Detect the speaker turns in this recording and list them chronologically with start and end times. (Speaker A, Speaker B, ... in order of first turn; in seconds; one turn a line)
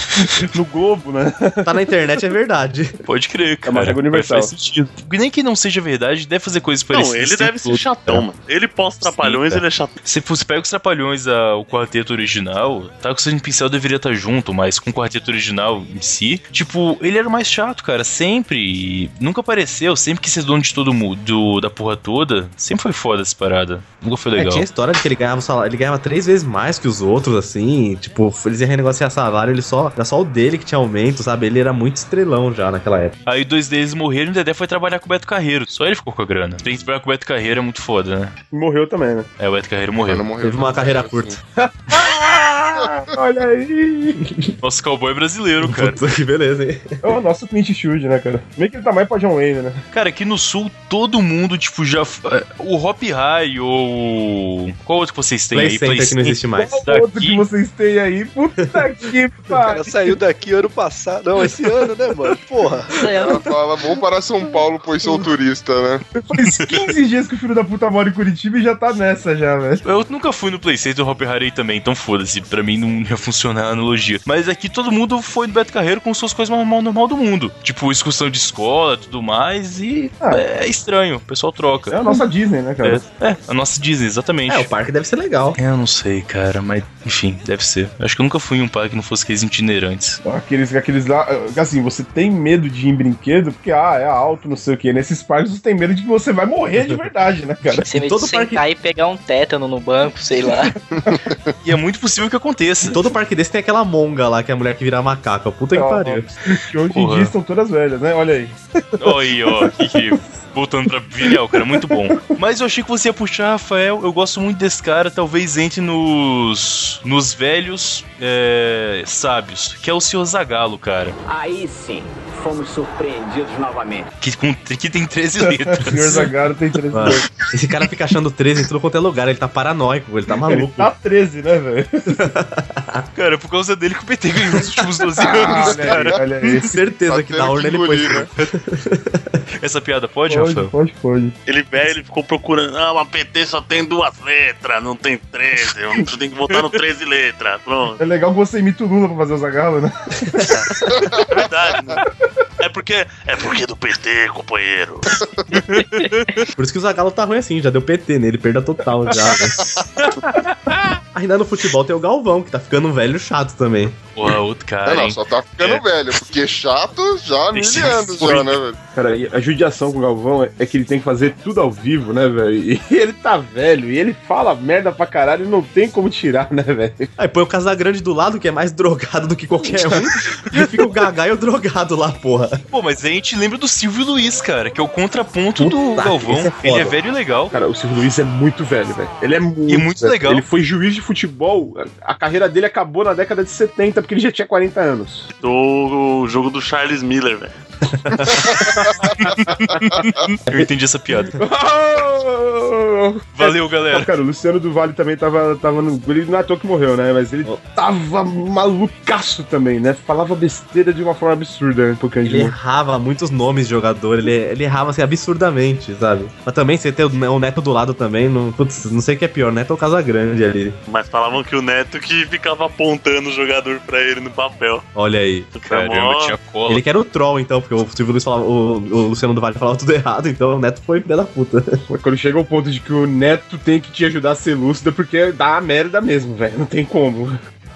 Speaker A: 0.2-1.9
Speaker B: 1.6-2.9
Speaker C: 3.0-8.2
Speaker A: 3.6-4.5
Speaker D: 6.9-9.9
Speaker C: 9.0-24.6
Speaker B: 24.3-33.1
Speaker C: 33.2-38.3
Speaker A: 38.5-39.3
Speaker C: 39.4-40.2
Speaker E: 40.1-41.4
Speaker B: 40.4-41.4
Speaker A: 41.6-44.2
Speaker B: 44.2-44.5
Speaker C: 44.6-46.0
Speaker B: 45.6-47.1
Speaker A: 47.0-49.8
Speaker C: 49.9-57.4
Speaker B: 55.5-56.8
Speaker A: 56.5-60.0
Speaker F: 59.6-63.0
Speaker G: 63.0-63.4
Speaker E: 63.2-66.0
Speaker A: 66.2-69.8
Speaker C: 66.6-66.9
Speaker C: 69.8-82.2
Speaker A: 81.9-83.0
Speaker C: 82.8-84.7
Speaker B: 84.5-85.6
Speaker C: 85.6-90.2
Speaker A: 90.2-97.8
Speaker G: 97.8-100.7
Speaker B: 97.9-98.6
Speaker E: 100.9-101.5
Speaker C: 101.6-103.0
Speaker B: 102.9-106.2
Speaker A: 105.7-109.7
Speaker C: 106.9-107.3
Speaker C: 109.0-121.2
Speaker H: 121.3-124.1
Speaker C: 124.2-126.3
Speaker A: 125.7-127.3
Speaker B: 126.9-130.9
Speaker A: 130.4-132.2
Speaker B: 132.1-133.0
Speaker C: 133.1-136.5
Speaker A: 135.2-136.8
Speaker B: 136.6-139.4
Speaker E: 137.1-138.3
Speaker C: 139.6-140.7
Speaker A: 140.3-141.3
Speaker D: 141.5-148.0
Speaker A: 148.0-150.4
Speaker B: 150.4-150.6
Speaker E: 150.9-151.3
Speaker D: 151.3-152.0
Speaker D: 152.6-155.1
Speaker E: 155.3-155.5
Speaker C: 155.6-156.4
Speaker B: 156.6-159.6
Speaker B: 161.1-164.0
Speaker C: 164.2-165.8
Speaker E: 164.8-168.8
Speaker C: 167.5-168.6
Speaker A: 168.9-177.1
Speaker B: 177.2-182.6
Speaker C: 182.7-187.5
Speaker B: 185.6-186.9
Speaker A: 187.5-195.3
Speaker C: 189.7-190.4
Speaker D: 195.4-197.5
Speaker B: 198.1-198.4
Speaker A: 198.6-198.9
Speaker C: 199.1-201.4
Speaker A: 201.4-212.5
Speaker C: 203.4-204.1
Speaker B: 212.2-220.8
Speaker D: 220.9-224.8
Speaker B: 224.9-225.5
Speaker D: 225.5-226.4
Speaker C: 225.6-226.8
Speaker B: 226.7-231.8
Speaker A: 231.9-237.4